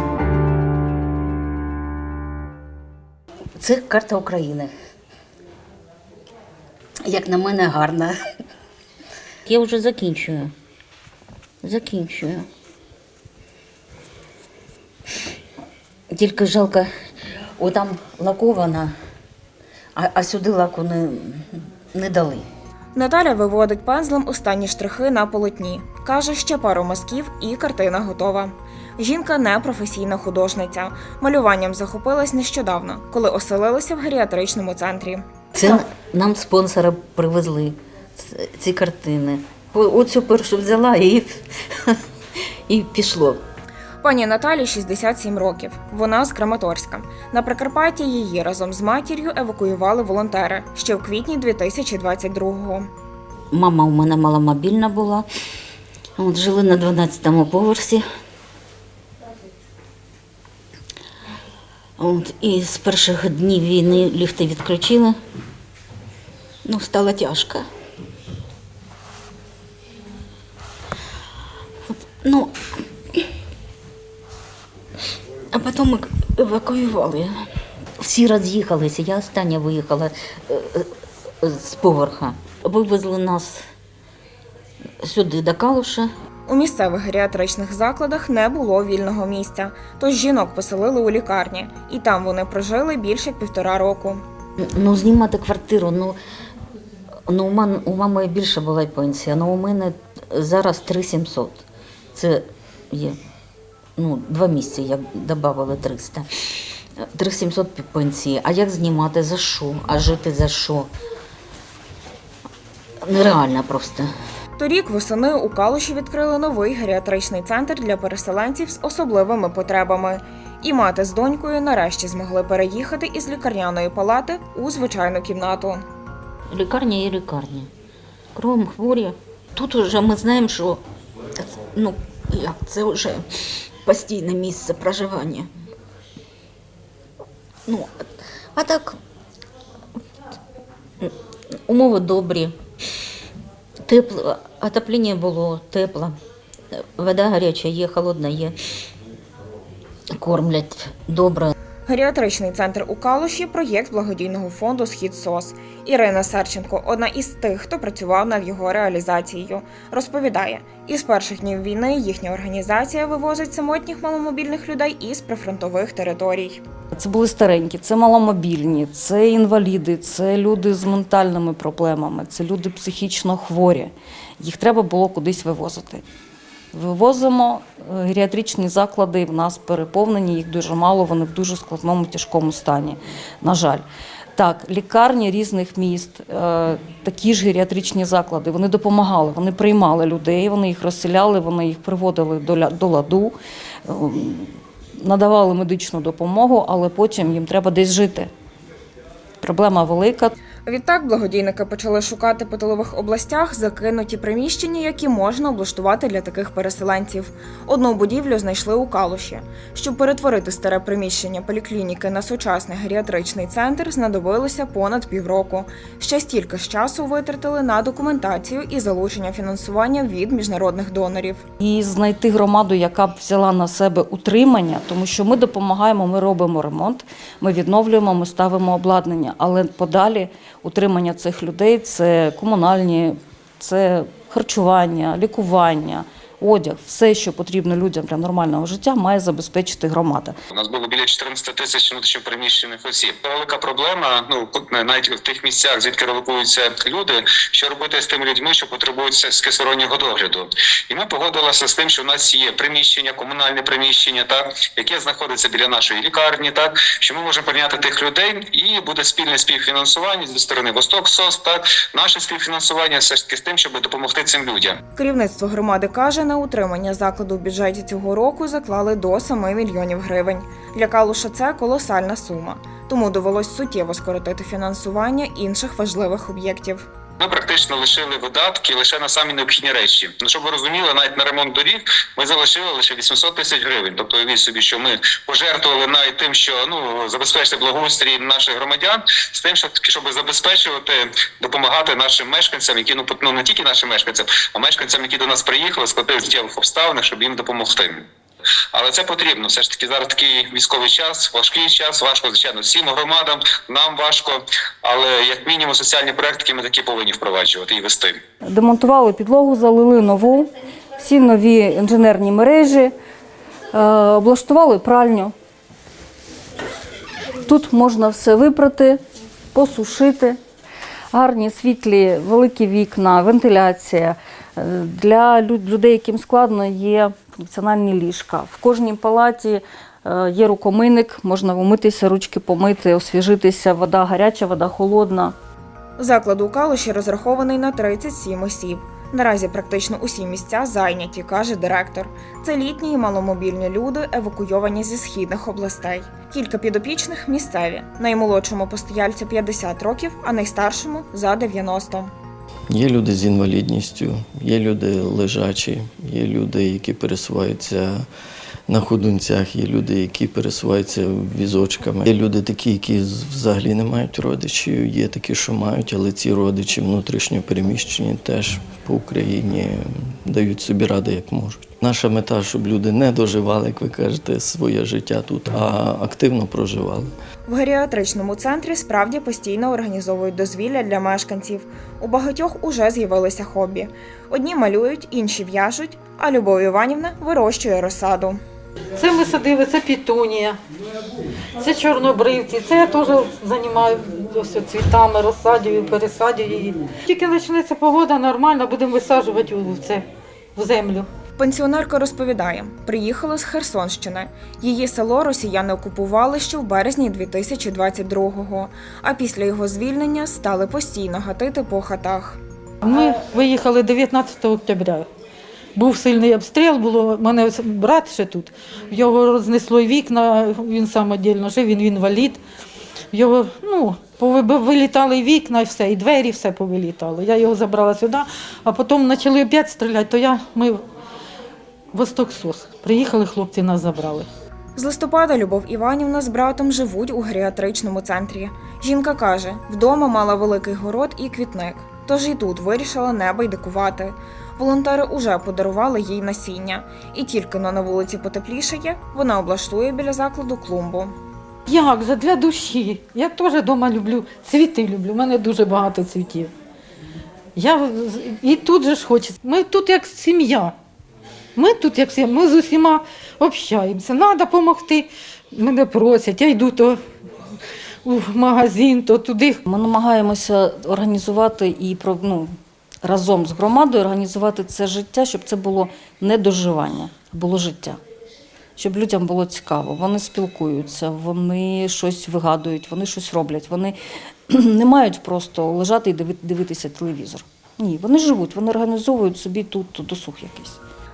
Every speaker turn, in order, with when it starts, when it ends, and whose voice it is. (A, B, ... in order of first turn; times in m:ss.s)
0:03.6-0:04.7 A
0:07.0-0:08.2 A
0:09.4-0:10.5 A
0:11.6-0:12.5 A
0:16.1-0:16.9 A
0:17.6-0:18.9 A
0:19.9-0:22.5 A
0:22.9-0:35.2 B
0:35.5-0:41.9 A
0:42.7-0:43.4 A
0:44.0-0:52.9 B
0:53.5-0:55.3 A
0:56.2-0:58.0 A
1:02.0-1:05.2 A
1:06.6-1:07.6 A
1:12.2-1:12.6 A
1:15.5-1:17.4 A
1:18.0-1:20.9 A
1:21.4-1:23.6 A
1:25.0-1:26.1 A
1:26.5-1:34.2 B
1:34.6-1:36.2 A
1:37.3-1:43.2 A
1:44.0-1:46.3 A
1:47.0-1:50.9 A
1:53.0-1:54.1 A
1:54.6-2:05.8 B
2:06.5-2:07.7 A
2:08.3-2:10.8 A
2:11.4-2:13.2 A
2:13.8-2:15.5 A
2:17.7-2:18.0 A
2:18.5-2:19.0 A
2:21.6-2:22.6 A
2:23.8-2:26.2 A
2:26.7-2:28.6 A
2:30.1-2:31.5 A
2:31.8-2:46.6 B
2:46.9-2:56.0 C
2:56.7-3:13.3 C
3:13.8-3:18.3 C
3:19.4-3:20.3 C
3:20.6-3:41.4 B
3:41.6-4:00.4 C
4:00.5-4:24.8 D
4:24.9-4:36.8 B
4:37.2-4:58.0 D
4:58.7-5:08.2 D
5:08.4-5:12.9 C
5:13.7-5:15.3 C
5:17.4-5:19.0 C
5:19.5-5:20.4 C
5:21.1-5:35.3 C
5:36.0-5:52.1 B
5:52.7-5:58.1 E
5:58.7-6:17.1 E
6:17.5-6:28.4 B
6:29.0-6:30.6 F
6:31.6-6:41.1 F
6:41.4-6:52.4 B
6:52.8-6:55.1 F
6:55.8-7:02.4 F
7:03.1-7:10.8 F
7:11.9-7:14.3 F
7:14.8-7:31.2 B
7:31.7-7:36.5 F
7:37.6-7:40.7 F
7:41.6-7:47.0 F
7:48.0-7:49.6 F
7:49.6-7:58.0 C
7:58.8-8:04.0 C
8:04.5-8:10.8 C